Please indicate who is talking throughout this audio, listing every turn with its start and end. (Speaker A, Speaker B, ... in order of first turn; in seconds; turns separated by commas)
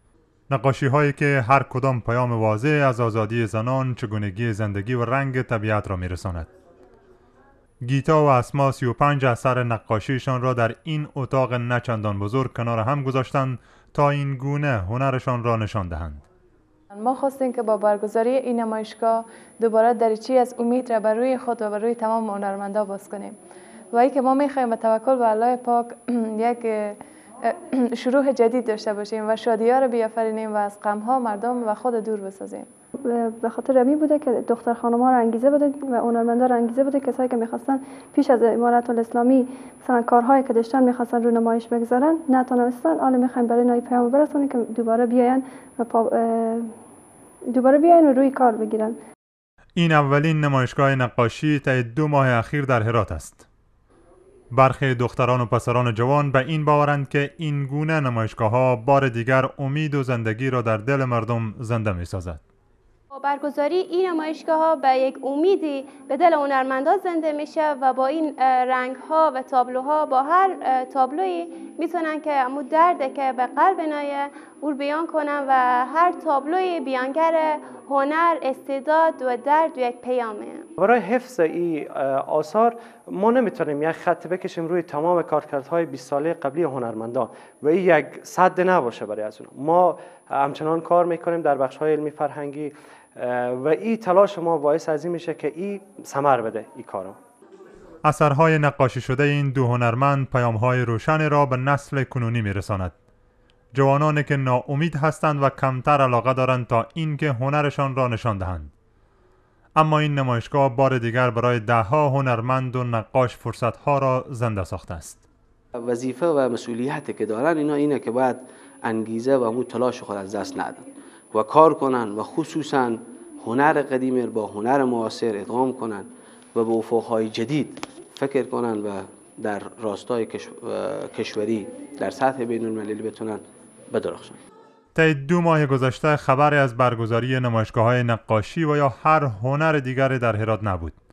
Speaker A: 0.5-6.5, Speaker A: 7.8-16.2, Speaker B: 16.9-23.4, Speaker B: 23.9-32.7, Speaker C: 33.1-46.7, Speaker C: 47.5-49.0, Speaker A: 49.8-53.5, Speaker A: 54.5-62.4, Speaker D: 63.1-80.7, Speaker E: 80.8-97.2, Speaker A: 98.0-102.9, Speaker A: 103.8-108.7, Speaker A: 109.8-115.2, Speaker F: 115.8-134.4, Speaker A: 134.9-140.9